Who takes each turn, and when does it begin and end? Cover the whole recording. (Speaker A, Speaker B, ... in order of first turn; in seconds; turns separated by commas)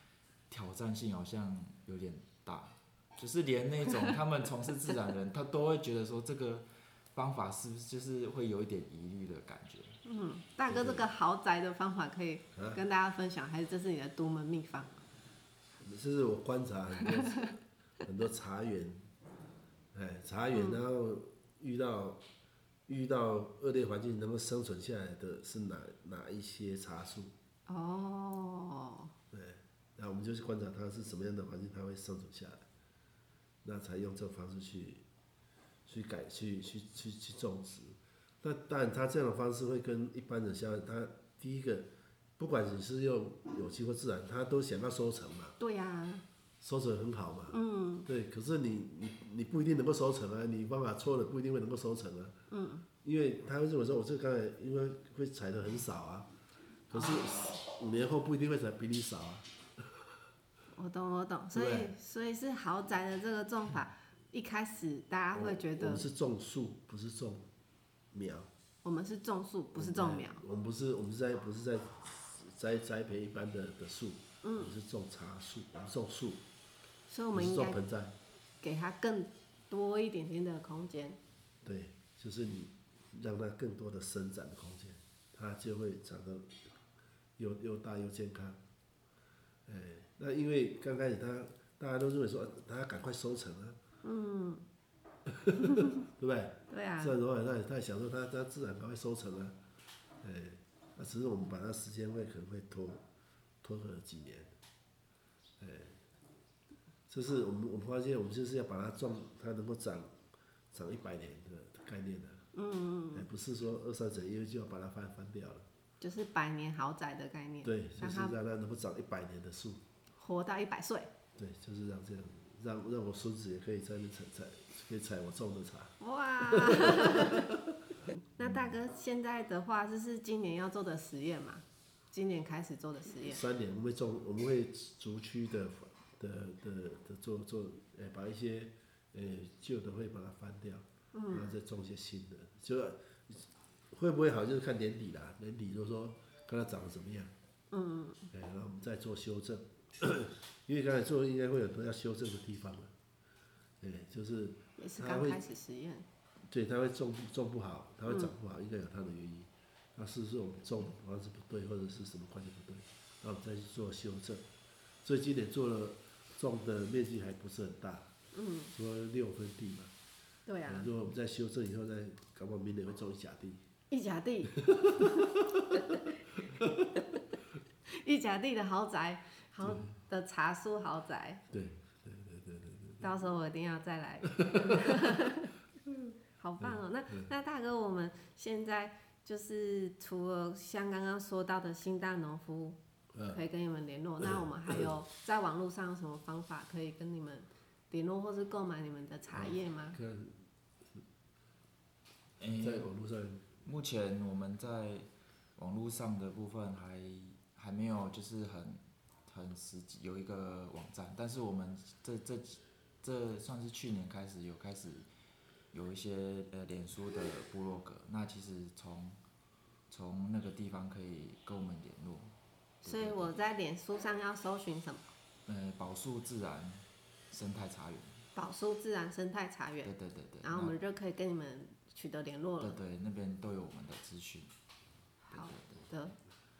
Speaker A: 0.5-10.0, Speaker B: 10.1-15.0, Speaker C: 10.7-11.1, Speaker C: 12.6-12.8, Speaker C: 15.8-19.1, Speaker C: 19.9-22.2, Speaker B: 20.5-20.8, Speaker C: 22.9-27.3, Speaker B: 27.7-29.1, Speaker C: 29.3-32.6, Speaker C: 33.6-35.0, Speaker C: 35.9-45.6, Speaker B: 45.6-46.2, Speaker C: 46.6-52.4, Speaker B: 47.5-48.1, Speaker B: 52.5-52.9, Speaker C: 53.0-56.3, Speaker C: 56.9-60.0, Speaker B: 56.9-57.3, Speaker B: 60.7-66.1, Speaker C: 61.5-61.9, Speaker C: 65.3-67.5, Speaker C: 68.1-68.5, Speaker B: 68.8-70.4, Speaker C: 69.7-76.4, Speaker B: 74.4-74.7, Speaker B: 77.1-77.8, Speaker C: 77.3-78.2, Speaker B: 78.6-81.2, Speaker C: 81.6-86.7, Speaker C: 87.4-88.6, Speaker C: 89.7-93.8, Speaker B: 94.0-94.7, Speaker C: 95.3-99.6, Speaker B: 95.6-95.9, Speaker B: 96.7-97.2, Speaker C: 100.2-103.0, Speaker C: 103.6-104.5, Speaker C: 105.6-106.0, Speaker C: 107.1-110.2, Speaker C: 110.7-112.5, Speaker B: 112.5-113.3, Speaker C: 113.1-115.7, Speaker B: 116.0-118.3, Speaker C: 117.6-119.8, Speaker B: 120.2-121.1, Speaker C: 121.4-127.7, Speaker B: 126.0-127.5, Speaker B: 128.2-133.4, Speaker C: 128.4-128.7, Speaker C: 133.2-147.3, Speaker B: 141.1-141.5, Speaker B: 147.7-148.3, Speaker C: 148.3-152.9, Speaker C: 153.8-155.4, Speaker B: 154.8-156.1, Speaker C: 156.4-164.5, Speaker B: 158.1-158.3, Speaker C: 165.0-168.1, Speaker B: 168.3-168.7, Speaker C: 168.7-169.9, Speaker B: 170.5-170.9, Speaker C: 170.7-173.6, Speaker B: 173.9-175.3, Speaker C: 174.6-175.9, Speaker C: 176.6-176.9, Speaker B: 177.9-181.4, Speaker C: 179.6-179.9, Speaker C: 181.5-183.1, Speaker B: 183.0-185.5, Speaker C: 184.4-184.8, Speaker B: 186.4-192.8, Speaker C: 186.6-187.3, Speaker C: 193.1-193.4, Speaker B: 193.3-200.0, Speaker C: 194.2-194.9, Speaker C: 199.3-200.4, Speaker A: 202.4-202.9, Speaker C: 202.6-203.5, Speaker A: 203.6-215.1, Speaker A: 215.7-219.2, Speaker A: 219.9-223.3, Speaker B: 222.8-225.1, Speaker A: 225.5-228.2, Speaker B: 228.3-232.8, Speaker A: 229.8-230.8, Speaker A: 232.6-234.5, Speaker B: 235.2-236.2, Speaker A: 235.3-235.9